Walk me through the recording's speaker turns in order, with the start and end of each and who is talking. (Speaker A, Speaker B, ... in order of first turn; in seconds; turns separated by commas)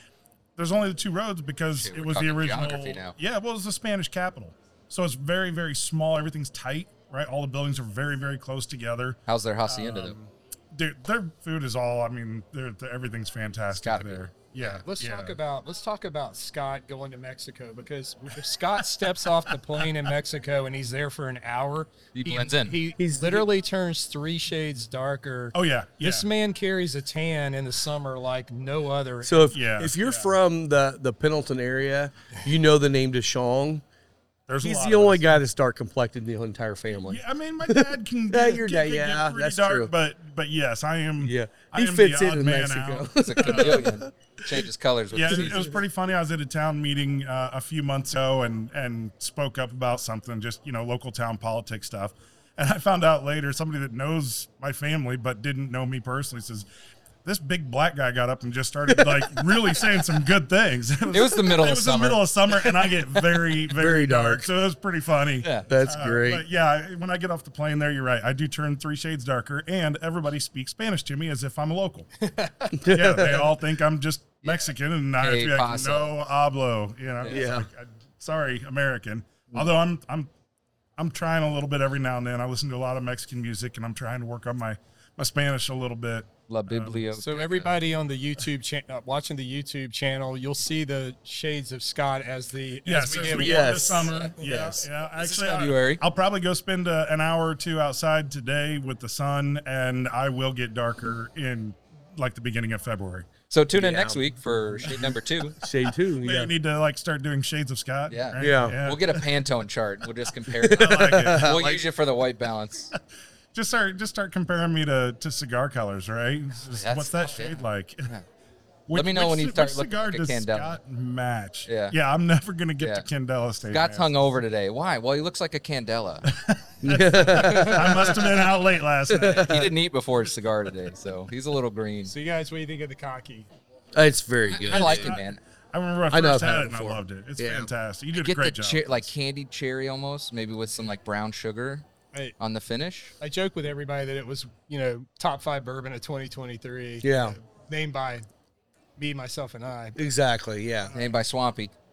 Speaker A: 0.6-15.4, Speaker B: 1.7-3.1, Speaker B: 9.3-10.2, Speaker B: 13.7-14.2, Speaker C: 14.8-29.6, Speaker A: 19.8-20.1, Speaker B: 22.1-22.8, Speaker D: 23.0-23.5, Speaker A: 25.5-26.3, Speaker D: 29.2-33.8, Speaker A: 29.5-30.3, Speaker A: 34.5-35.4, Speaker D: 34.6-39.9, Speaker A: 37.0-44.0, Speaker D: 41.2-44.1, Speaker B: 43.2-45.8, Speaker A: 45.1-56.6, Speaker A: 57.2-72.1, Speaker B: 61.1-62.2, Speaker D: 63.7-64.5, Speaker D: 65.7-66.4, Speaker C: 72.2-72.8, Speaker D: 72.7-73.5, Speaker A: 72.9-80.3, Speaker B: 74.4-76.1, Speaker D: 77.2-77.7, Speaker A: 81.0-87.0, Speaker B: 86.5-87.7, Speaker C: 87.2-94.8, Speaker A: 92.8-103.3, Speaker B: 93.1-93.5, Speaker D: 93.3-94.8, Speaker B: 95.2-96.0, Speaker B: 103.5-105.6, Speaker D: 103.7-105.0, Speaker D: 105.6-106.5, Speaker A: 106.2-109.3, Speaker B: 108.1-112.9, Speaker D: 108.4-108.8, Speaker D: 110.6-111.7, Speaker A: 110.7-111.8, Speaker A: 113.5-118.1, Speaker B: 116.8-118.2, Speaker A: 118.9-124.1, Speaker B: 118.9-120.8, Speaker B: 121.7-121.9, Speaker B: 123.7-126.3, Speaker A: 126.2-129.7, Speaker D: 126.8-128.3, Speaker C: 127.3-128.2, Speaker D: 129.1-129.7, Speaker B: 129.3-132.1, Speaker C: 132.1-133.5, Speaker D: 133.9-135.2, Speaker B: 134.5-135.4, Speaker A: 134.6-139.1, Speaker D: 136.1-137.7, Speaker B: 138.2-141.8, Speaker B: 142.4-143.1, Speaker C: 143.2-148.3, Speaker D: 147.0-147.4, Speaker C: 149.0-150.0, Speaker D: 149.9-150.9, Speaker B: 150.9-151.7